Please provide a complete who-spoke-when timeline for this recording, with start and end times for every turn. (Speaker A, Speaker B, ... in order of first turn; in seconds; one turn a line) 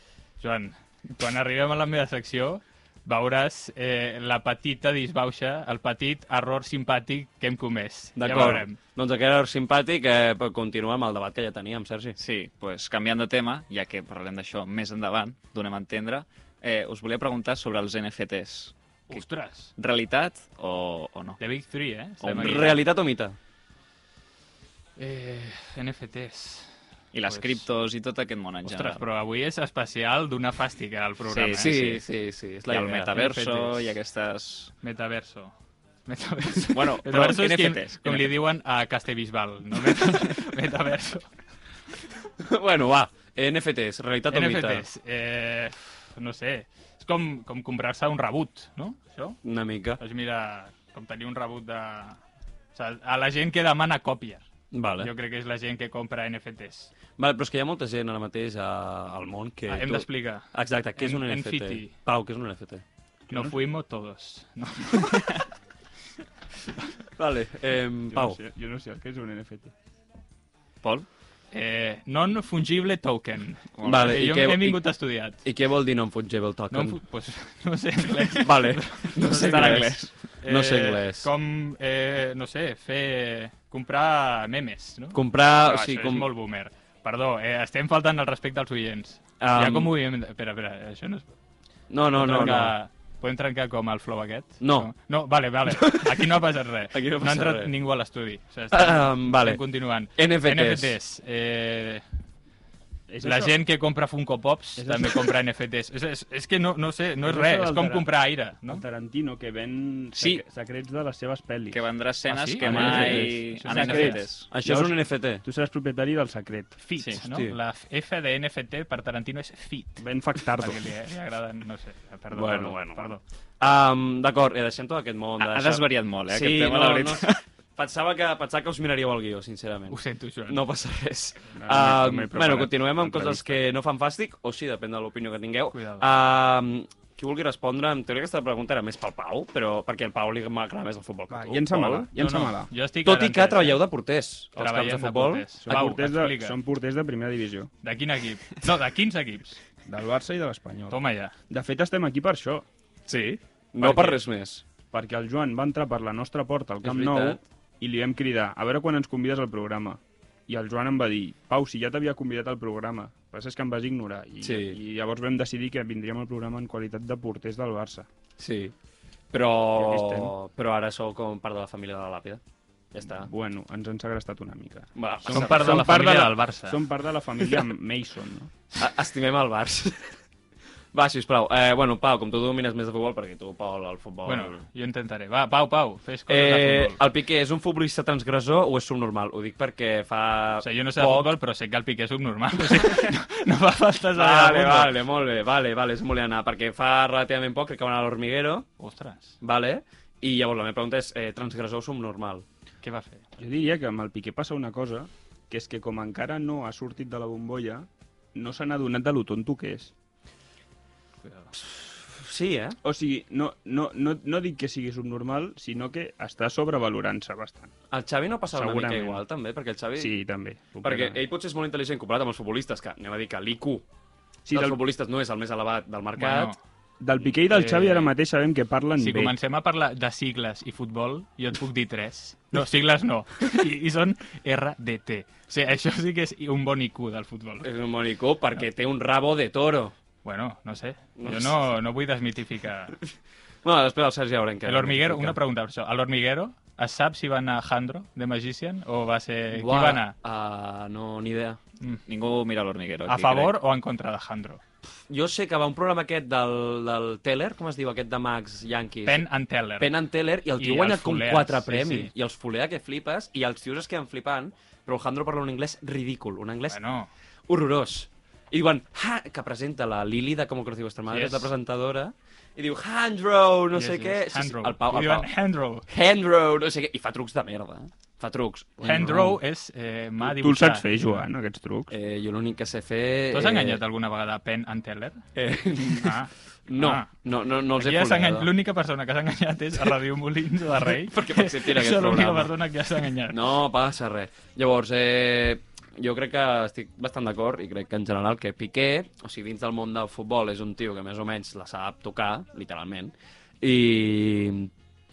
Speaker A: 0.4-8.8
Speaker B: 8.2-12.2
Speaker C: 8.3-8.6
Speaker C: 12.2-19.2
Speaker A: 19.1-19.7
Speaker C: 19.8-21.4
Speaker A: 21.4-22.8
Speaker C: 22.2-22.8
Speaker B: 22.3-23.4
Speaker A: 25.0-26.7
Speaker C: 27.1-29.0
Speaker A: 27.3-27.6
Speaker A: 28.6-31.7
Speaker C: 31.3-32.0
Speaker B: 31.6-33.3
Speaker C: 32.7-34.7
Speaker A: 33.1-33.9
Speaker A: 34.8-35.5
Speaker A: 36.0-41.3
Speaker C: 36.7-38.4
Speaker B: 42.4-44.9
Speaker A: 44.3-49.4
Speaker B: 49.4-50.0
Speaker A: 50.0-52.2
Speaker A: 52.7-54.4
Speaker B: 54.7-55.1
Speaker A: 55.0-56.9
Speaker B: 57.2-62.8
Speaker A: 59.7-62.0
Speaker D: 63.3-63.6
Speaker A: 63.3-65.4
Speaker B: 67.2-68.4
Speaker D: 68.1-69.7
Speaker A: 71.5-75.4
Speaker C: 73.8-74.2
Speaker B: 73.8-74.8
Speaker B: 75.4-77.0
Speaker A: 76.7-91.3
Speaker B: 78.3-81.3
Speaker C: 79.3-80.1
Speaker B: 85.1-86.3
Speaker B: 89.4-89.9
Speaker B: 91.9-92.7
Speaker A: 92.1-102.0
Speaker B: 94.6-94.9
Speaker B: 95.7-96.3
Speaker B: 96.9-97.7
Speaker B: 98.7-99.6
Speaker B: 100.1-101.0
Speaker D: 103.1-103.6
Speaker A: 103.2-108.8
Speaker D: 104.8-105.3
Speaker D: 107.2-108.1
Speaker D: 108.6-111.8
Speaker C: 110.1-110.4
Speaker C: 111.7-114.5
Speaker A: 112.3-114.3
Speaker D: 112.7-116.8
Speaker B: 112.7-113.0
Speaker B: 114.5-115.4
Speaker A: 116.8-123.2
Speaker B: 117.2-117.6
Speaker D: 120.0-120.8
Speaker B: 122.3-142.1
Speaker C: 125.4-127.4
Speaker A: 129.9-130.6
Speaker D: 131.5-133.7
Speaker A: 135.7-136.1
Speaker D: 141.3-142.7
Speaker A: 142.2-143.8
Speaker B: 143.0-145.5
Speaker A: 144.6-146.6
Speaker D: 145.6-147.7
Speaker A: 147.8-149.6
Speaker D: 149.9-151.0
Speaker A: 150.9-151.3
Speaker D: 151.5-152.7
Speaker B: 153.1-154.6
Speaker D: 153.8-154.2
Speaker D: 154.9-168.1
Speaker B: 156.8-157.4
Speaker B: 164.4-164.8
Speaker B: 168.4-168.7
Speaker B: 169.3-172.4
Speaker D: 169.7-170.3
Speaker B: 172.9-173.3
Speaker D: 173.0-178.5
Speaker B: 174.9-176.0
Speaker A: 175.3-176.8
Speaker B: 178.8-180.1
Speaker B: 180.9-184.6
Speaker A: 184.2-187.0
Speaker B: 186.3-191.3
Speaker A: 190.6-194.9
Speaker B: 194.1-198.7
Speaker A: 198.8-199.4
Speaker B: 199.4-202.4
Speaker A: 202.8-203.2
Speaker D: 203.4-209.9
Speaker B: 211.5-212.8
Speaker D: 212.8-217.7
Speaker B: 217.9-220.1
Speaker D: 218.5-219.2
Speaker D: 219.9-221.2
Speaker B: 220.8-223.8
Speaker D: 224.4-224.8
Speaker B: 224.5-226.5
Speaker A: 226.2-226.6
Speaker D: 227.0-229.3
Speaker A: 227.5-228.1
Speaker A: 229.0-237.7
Speaker B: 237.6-239.9
Speaker A: 240.2-243.0
Speaker B: 241.2-241.6
Speaker B: 243.6-245.4
Speaker A: 244.6-250.1
Speaker B: 249.5-251.6
Speaker C: 252.1-253.5
Speaker A: 253.1-254.6
Speaker B: 255.1-259.2
Speaker A: 259.1-259.9
Speaker B: 259.8-266.8
Speaker A: 260.6-262.1
Speaker A: 266.7-267.1
Speaker B: 267.5-275.3
Speaker A: 271.1-271.5
Speaker A: 273.7-275.9
Speaker B: 275.9-279.3
Speaker A: 278.8-281.2
Speaker D: 278.9-279.4
Speaker D: 280.2-281.9
Speaker B: 281.9-283.8
Speaker A: 283.3-285.3
Speaker B: 285.3-288.5
Speaker A: 285.8-287.1
Speaker A: 287.7-293.5
Speaker B: 290.9-292.5
Speaker B: 293.3-304.7